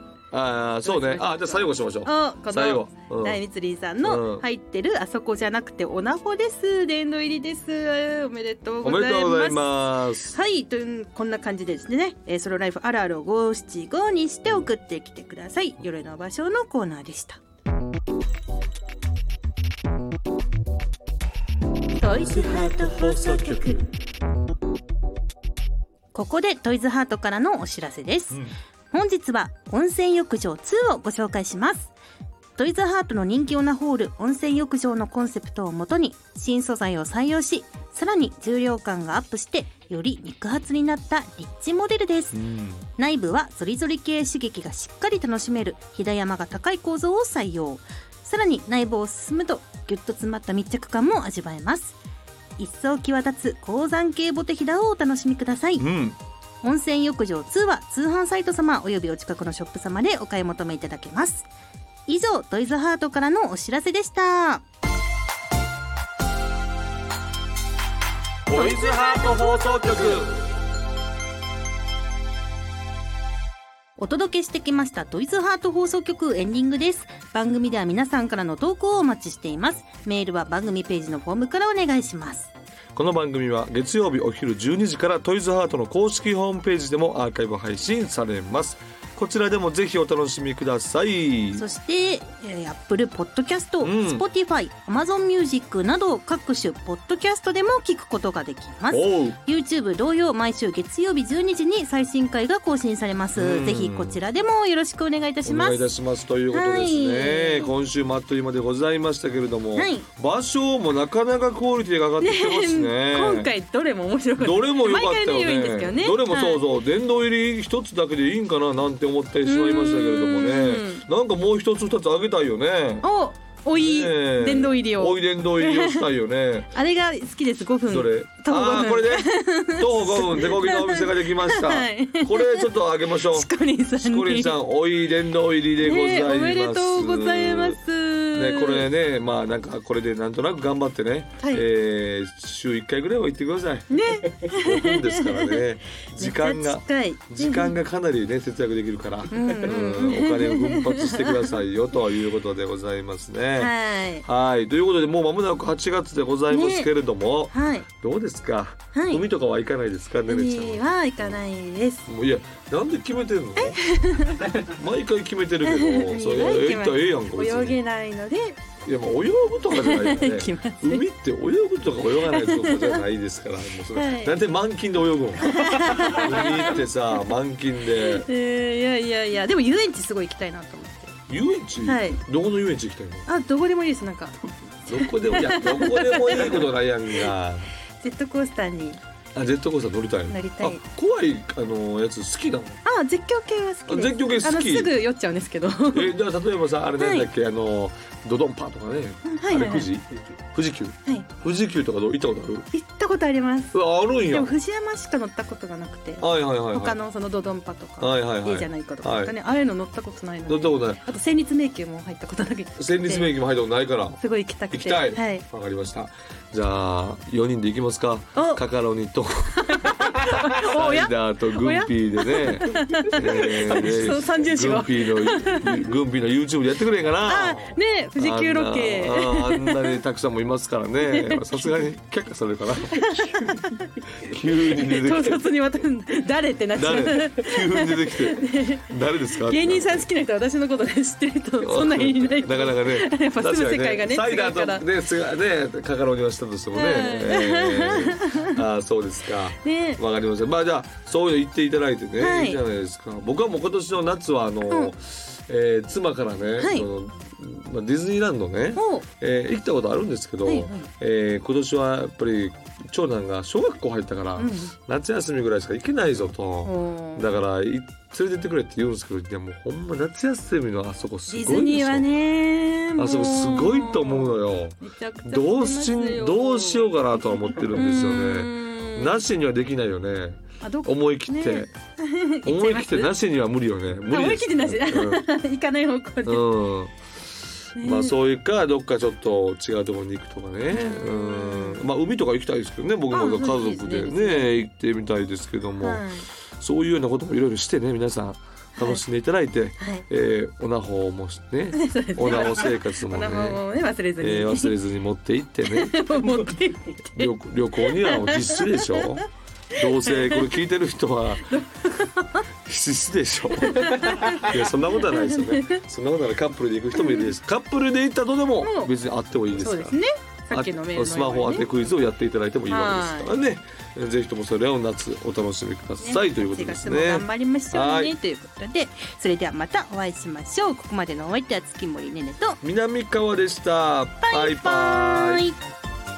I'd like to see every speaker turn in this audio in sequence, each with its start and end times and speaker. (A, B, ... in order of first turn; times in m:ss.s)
0:00.3-0:03.4 A
0:00.8-0:17.4 B
0:04.0-0:04.4 A
0:08.8-0:10.4 A
0:21.9-0:23.9 B
0:22.0-0:23.9 A
0:26.1-0:28.4 B
0:28.9-0:31.9 B
0:32.6-0:42.4 B
0:42.3-0:42.9 A
0:43.0-0:52.0 B
0:52.6-0:55.9 B
0:55.8-0:56.2 A
0:56.6-1:01.5 B
1:02.1-1:04.6 B
1:08.5-1:10.4 A
1:08.5-1:10.3 B
1:14.0-1:22.5 B
1:22.9-1:31.6 A
1:31.6-1:45.9 B
1:33.8-1:34.2 A
1:38.9-1:39.4 A
1:43.4-1:44.2 A
1:45.4-1:53.5 A
1:46.5-1:47.7 B
1:49.8-1:50.1 B
1:52.2-1:56.6 B
1:54.4-2:03.1 A
1:59.4-2:01.1 B
2:03.0-2:06.1 B
2:03.7-2:06.7 A
2:06.7-2:14.6 B
2:07.9-2:17.8 A
2:15.8-2:18.9 B
2:18.3-2:41.4 A
2:21.4-2:21.6 B
2:23.9-2:25.6 B
2:26.2-2:27.8 B
2:29.3-2:31.5 B
2:33.6-2:34.2 B
2:36.5-2:36.9 B
2:37.5-2:37.9 B
2:38.9-2:39.2 B
2:40.3-2:42.1 B
2:42.1-2:43.8 A
2:43.6-2:44.6 B
2:44.4-2:47.8 A
2:45.6-2:48.6 B
2:48.8-2:58.3 A
2:49.7-2:51.1 B
2:52.3-2:53.0 B
2:53.9-2:54.4 B
2:55.4-2:56.8 B
2:57.9-3:01.1 B
3:01.3-3:03.3 A
3:01.8-3:02.2 B
3:03.3-3:07.3 B
3:04.9-3:07.7 A
3:08.0-3:09.0 B
3:09.3-3:12.8 A
3:10.3-3:10.8 B
3:12.8-3:16.1 B
3:13.9-3:14.9 A
3:15.9-3:22.7 A
3:17.0-3:17.3 B
3:19.2-3:19.9 B
3:22.7-3:33.3 B
3:23.7-3:24.5 A
3:26.2-3:27.0 A
3:28.0-3:29.4 A
3:30.5-3:31.0 A
3:32.8-3:34.2 A
3:34.2-3:35.4 B
3:34.7-3:40.0 A
3:38.4-3:38.6 B
3:39.6-3:45.7 B
3:40.5-3:53.4 A
3:47.3-3:50.0 B
3:51.0-3:51.9 B
3:52.9-4:04.8 B
3:54.2-3:55.4 A
3:56.8-4:00.1 A
4:01.6-4:32.1 A
4:06.7-4:08.6 B
4:09.6-4:10.0 B
4:12.2-4:12.6 B
4:14.7-4:14.9 B
4:16.6-4:16.9 B
4:18.8-4:19.1 B
4:20.4-4:20.9 B
4:24.4-4:24.8 B
4:26.6-4:27.3 B
4:31.3-4:39.2 B
4:33.0-4:41.7 A
4:40.6-4:43.1 B
4:42.4-4:45.2 A
4:44.1-4:46.5 B
4:46.2-4:46.9 A
4:47.8-4:48.2 B
4:47.8-4:56.0 A
4:50.7-4:51.9 B
4:53.1-4:54.6 B
4:55.8-4:56.3 B
4:56.6-5:03.6 A
4:58.8-4:59.0 B
4:59.8-5:00.0 B
5:01.8-5:04.8 B
5:04.2-5:06.1 A
5:05.7-5:09.2 B
5:07.1-5:11.6 A
5:09.8-5:10.5 B
5:11.5-5:12.5 B
5:12.6-5:20.0 A
5:13.6-5:15.8 B
5:16.9-5:17.3 B
5:18.6-5:18.9 B
5:19.6-5:21.7 B
5:20.5-5:28.1 A
5:22.7-5:23.3 B
5:26.0-5:32.6 B
5:32.6-5:35.5 A
5:34.2-5:35.6 B